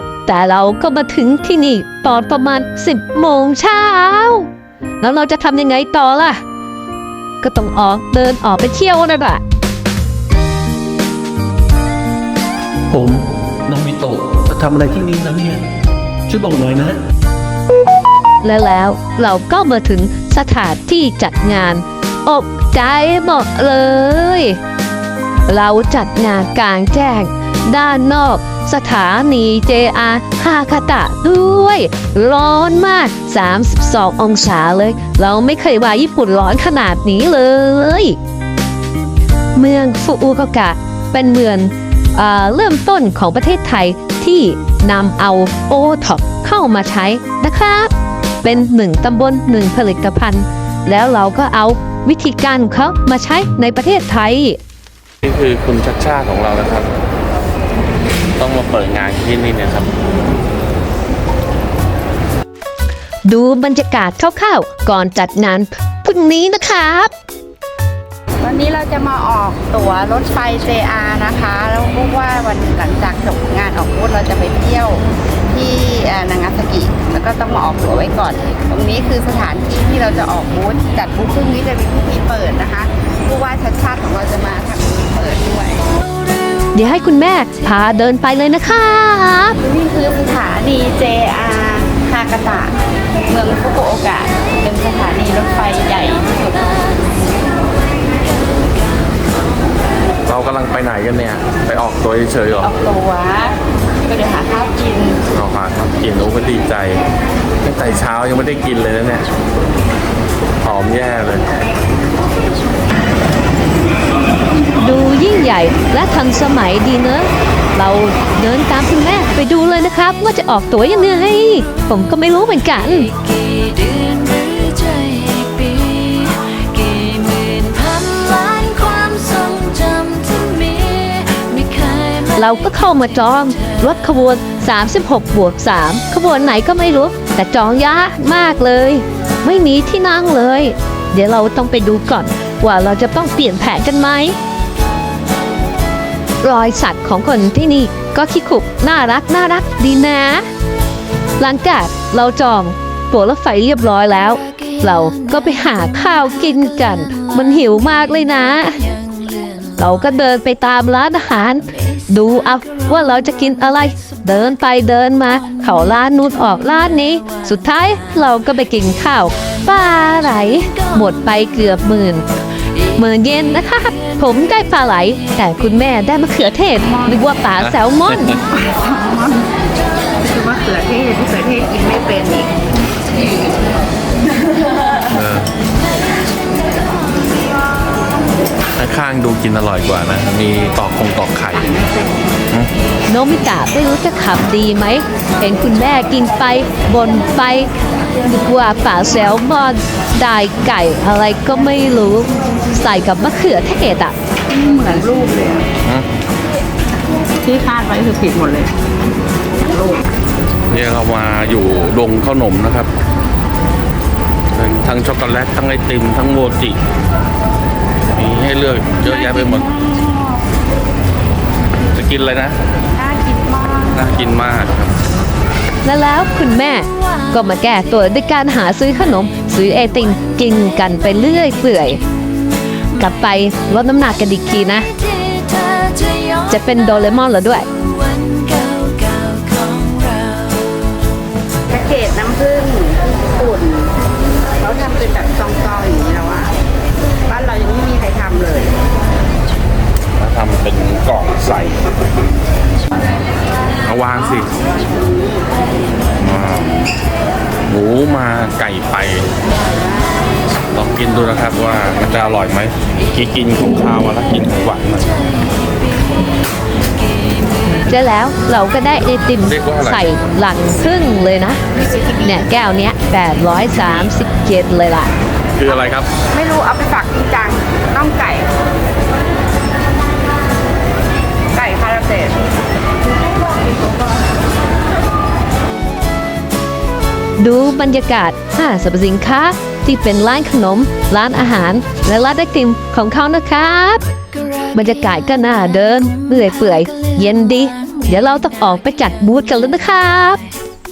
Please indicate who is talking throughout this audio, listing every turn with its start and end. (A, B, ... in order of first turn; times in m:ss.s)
0:00.2-0:04.5 A
0:05.0-0:06.4 A
0:07.4-0:09.4 A
0:12.9-0:15.6 B
0:16.3-0:17.0 B
0:18.4-0:24.6 A
0:25.5-0:38.2 A
0:39.5-0:47.9 A
0:48.4-0:54.6 A
0:55.2-0:56.9 C
0:58.4-0:59.9 C
1:03.2-1:07.1 A
1:08.4-1:25.9 D
1:26.7-1:29.6 A
1:29.6-1:32.7 D
1:33.3-1:37.0 D
1:40.2-1:42.7 C
1:42.6-1:45.2 D
1:45.3-1:47.0 C
1:47.6-1:49.2 C
1:50.6-1:51.5 C
1:54.7-2:03.1 A
2:03.4-2:12.3 E
2:12.3-2:24.4 A
2:26.4-2:30.4 A
2:31.4-2:38.8 A
2:39.8-2:52.2 A
2:52.9-2:58.4 A
2:57.6-2:58.4 C
2:58.5-2:59.6 D
3:00.2-3:02.6 D
3:05.1-3:05.5 C
3:08.8-3:11.8 C
3:11.5-3:12.4 D
3:13.1-3:17.7 A
3:18.2-3:24.1 A
3:24.5-3:25.7 D
3:27.4-3:28.8 D
3:29.6-3:30.0 D
3:30.7-3:32.9 C
3:34.5-3:36.8 C
3:38.1-3:39.7 C
3:39.0-3:40.4 D
3:41.9-3:42.6 C
3:42.9-3:44.3 D
3:43.9-3:44.9 C
3:45.8-3:52.0 A
3:53.0-3:54.9 A
3:55.3-3:56.4 E
3:56.5-3:57.6 A
3:58.1-4:00.6 E
4:01.7-4:04.0 D
4:04.6-4:06.6 D
4:07.2-4:08.8 D
4:10.2-4:11.9 C
4:13.8-4:14.5 C
4:14.7-4:15.5 D
4:16.2-4:16.8 C
4:17.7-4:19.3 C
4:19.5-4:20.2 D
4:20.7-4:25.2 C
4:27.7-4:31.6 A
4:29.4-4:30.1 C
4:31.7-4:32.4 D
4:32.2-4:35.1 A
4:33.7-4:34.1 C
4:35.6-4:36.1 C
4:36.3-4:38.5 D
4:41.5-4:42.4 D
4:43.4-4:43.8 D
4:47.4-4:54.0 A
4:54.7-5:00.4 A